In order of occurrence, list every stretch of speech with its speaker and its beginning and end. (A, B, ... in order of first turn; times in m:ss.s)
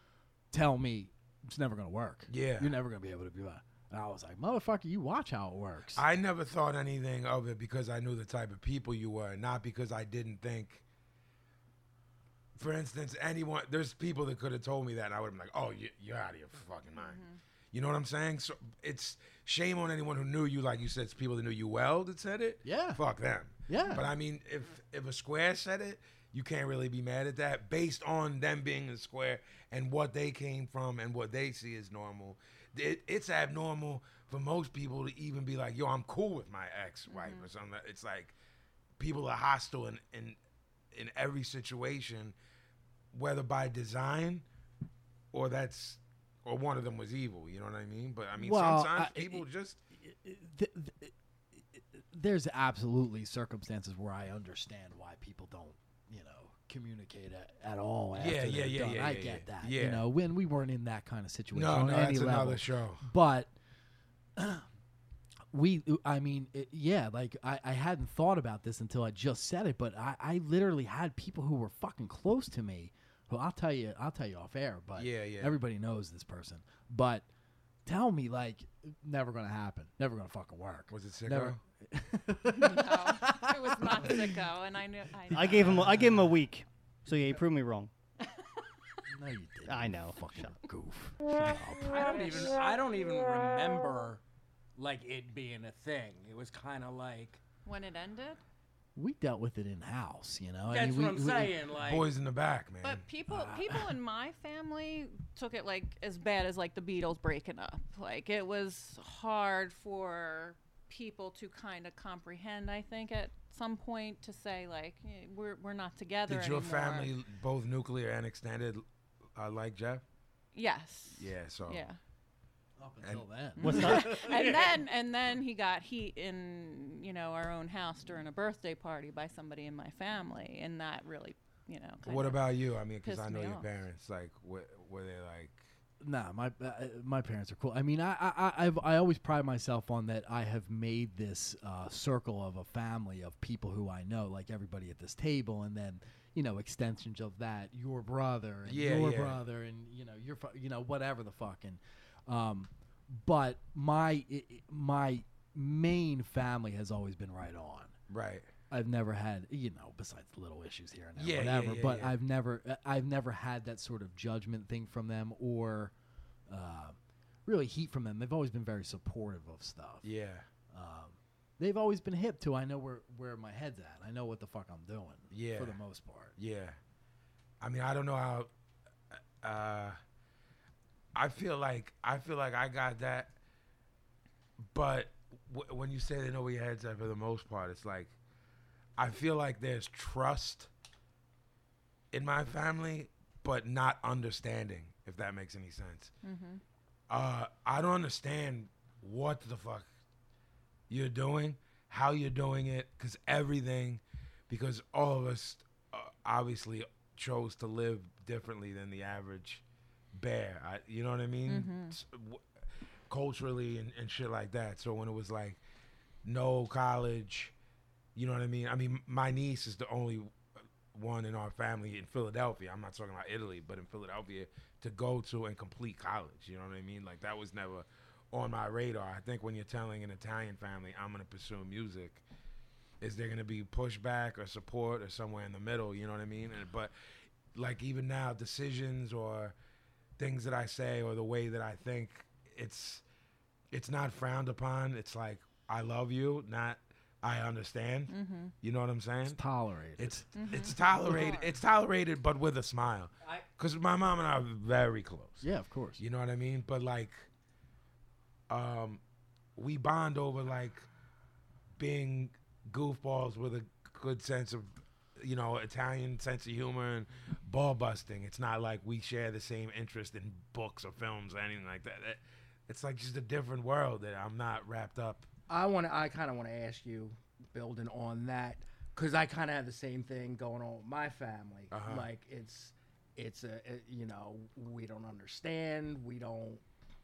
0:00.5-0:06.0 A
0:02.3-0:02.7 B
0:05.9-0:10.8 B
0:12.6-0:38.4 B
0:17.0-0:17.4 C
0:22.6-0:23.0 A
0:23.7-0:24.0 A
0:37.1-0:37.5 C
0:39.0-0:40.4 B
0:40.9-0:42.4 B
0:43.1-0:44.4 B
0:45.3-0:49.8 B
0:48.4-0:49.4 A
0:50.0-1:03.5 A
0:58.2-1:00.0 B
1:01.5-1:03.0 B
1:04.4-1:04.7 A
1:05.5-1:17.3 A
1:15.0-1:15.6 B
1:17.9-1:24.4 A
1:20.9-1:21.6 B
1:22.5-1:25.8 C
1:25.3-1:26.4 A
1:25.3-1:27.9 D
1:28.2-1:28.6 C
1:29.1-1:32.0 A
1:29.7-1:30.5 D
1:31.8-1:34.2 E
1:34.8-1:37.4 E
1:37.6-1:38.4 C
1:39.0-1:41.6 A
1:40.7-1:42.1 E
1:41.8-1:43.0 B
1:42.8-1:57.1 C
1:43.3-1:43.8 A
1:56.3-1:58.8 B
1:59.4-2:00.0 B
2:00.5-2:02.0 C
2:01.1-2:01.9 B
2:02.8-2:04.5 A
2:03.6-2:12.4 C
2:03.6-2:04.2 D
2:12.0-2:15.6 B
2:13.0-2:13.7 C
2:16.0-2:38.0 A
2:28.6-2:29.4 B
2:38.1-2:38.5 B
2:38.7-2:45.9 A
2:41.2-2:42.2 B
2:46.5-2:50.1 A
2:50.0-2:50.5 B
2:50.7-2:56.4 A
2:55.3-2:55.8 B
2:56.4-2:56.8 B
2:57.6-2:58.5 B
2:59.1-3:00.0 B
3:01.2-3:03.3 B
3:04.6-3:08.1 B
3:09.0-3:10.7 B
3:12.1-3:16.1 B
3:16.2-3:16.6 C
3:17.1-3:19.9 B
3:20.9-3:32.5 B
3:31.5-3:32.0 C
3:33.1-3:35.6 B
3:36.2-3:37.5 B
3:38.2-3:40.4 B
3:40.9-3:52.2 B
3:53.0-3:56.9 B
3:57.5-3:59.6 B
4:00.2-4:03.0 B
4:03.7-4:09.4 B
4:08.1-4:08.5 C
4:09.3-4:10.3 A
4:10.0-4:15.4 B
4:10.4-4:11.5 C
4:15.4-4:16.0 A
4:16.0-4:17.3 B
4:18.5-4:19.0 B
4:19.6-4:20.9 B
4:21.8-4:35.3 B
4:35.5-4:46.6 E
4:41.7-4:42.1 B